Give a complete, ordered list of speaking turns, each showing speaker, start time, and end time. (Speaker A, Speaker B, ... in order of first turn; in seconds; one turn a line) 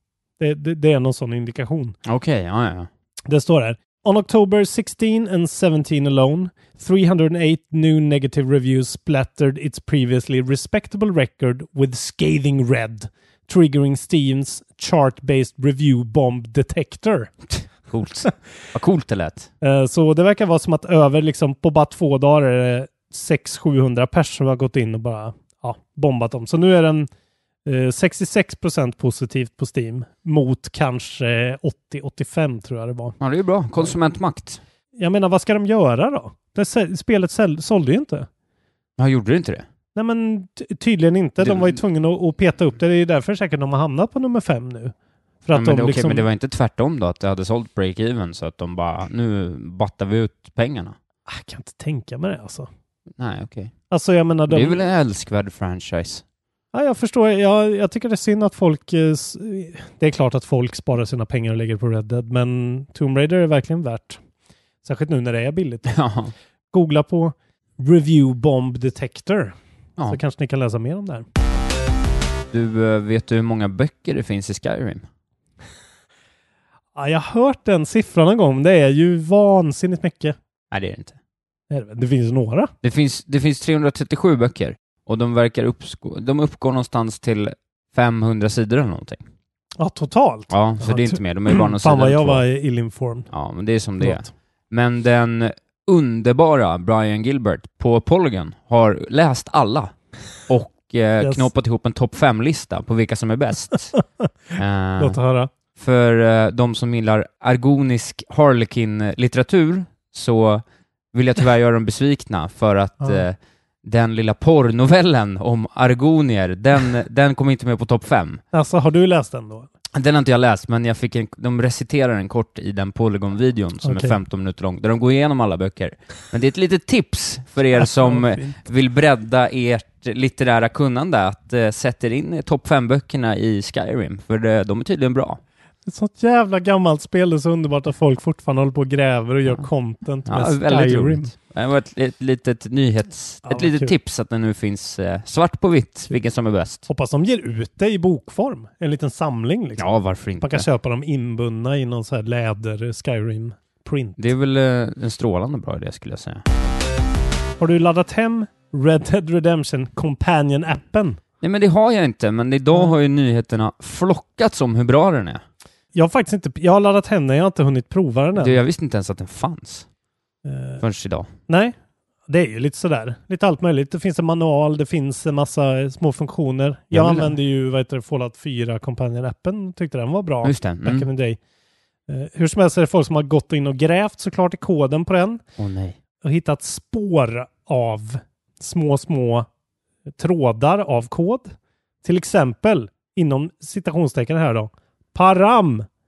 Speaker A: 0.4-2.0
Speaker B: 2.0-2.9
Speaker A: 3.3-17.3
Speaker B: 17.5-19.5
Speaker A: 19.6-27.1
Speaker A: 27.6-33.1
Speaker B: 33.2-34.6
Speaker A: 35.0-38.3
Speaker B: 39.0-39.6
Speaker A: 39.9-44.9
Speaker B: 41.4-41.8
Speaker A: 45.4-46.2
Speaker B: 45.5-51.0
Speaker A: 51.3-52.7
Speaker B: 53.2-53.7
Speaker A: 53.9-54.8
Speaker B: 54.5-56.2
Speaker A: 56.7-64.2
Speaker A: 64.8-65.9
Speaker B: 65.9-66.3
Speaker A: 66.7-69.5
Speaker A: 70.0-71.2
Speaker B: 72.5-75.0
Speaker A: 77.0-80.3
Speaker B: 80.7-81.2
Speaker A: 81.7-82.7
Speaker B: 82.8-89.2
Speaker A: 89.8-93.3
Speaker B: 90.5-92.4
Speaker B: 93.3-99.9
Speaker A: 94.0-94.3
Speaker B: 100.5-103.9
Speaker A: 101.2-101.5
Speaker B: 104.6-105.2
Speaker A: 105.0-105.5
Speaker B: 105.8-118.4
Speaker A: 118.5-119.7
Speaker B: 119.9-135.4
Speaker A: 123.8-124.2
Speaker A: 127.8-128.6
Speaker A: 135.8-141.3
Speaker B: 140.2-146.8
Speaker A: 143.5-143.9
Speaker A: 146.9-149.8
Speaker B: 149.8-150.7
Speaker A: 150.4-154.2
Speaker B: 154.2-156.4
Speaker A: 157.6-161.2
Speaker B: 161.4-165.4
Speaker A: 165.9-168.6
Speaker B: 168.3-169.9
Speaker A: 170.4-170.8
Speaker B: 170.8-171.3
Speaker A: 171.5-171.7
Speaker A: 172.3-181.4
Speaker B: 176.9-177.3
Speaker B: 180.4-181.1
Speaker A: 182.1-185.4
Speaker B: 185.6-186.0
Speaker A: 186.2-189.5
Speaker A: 190.2-195.8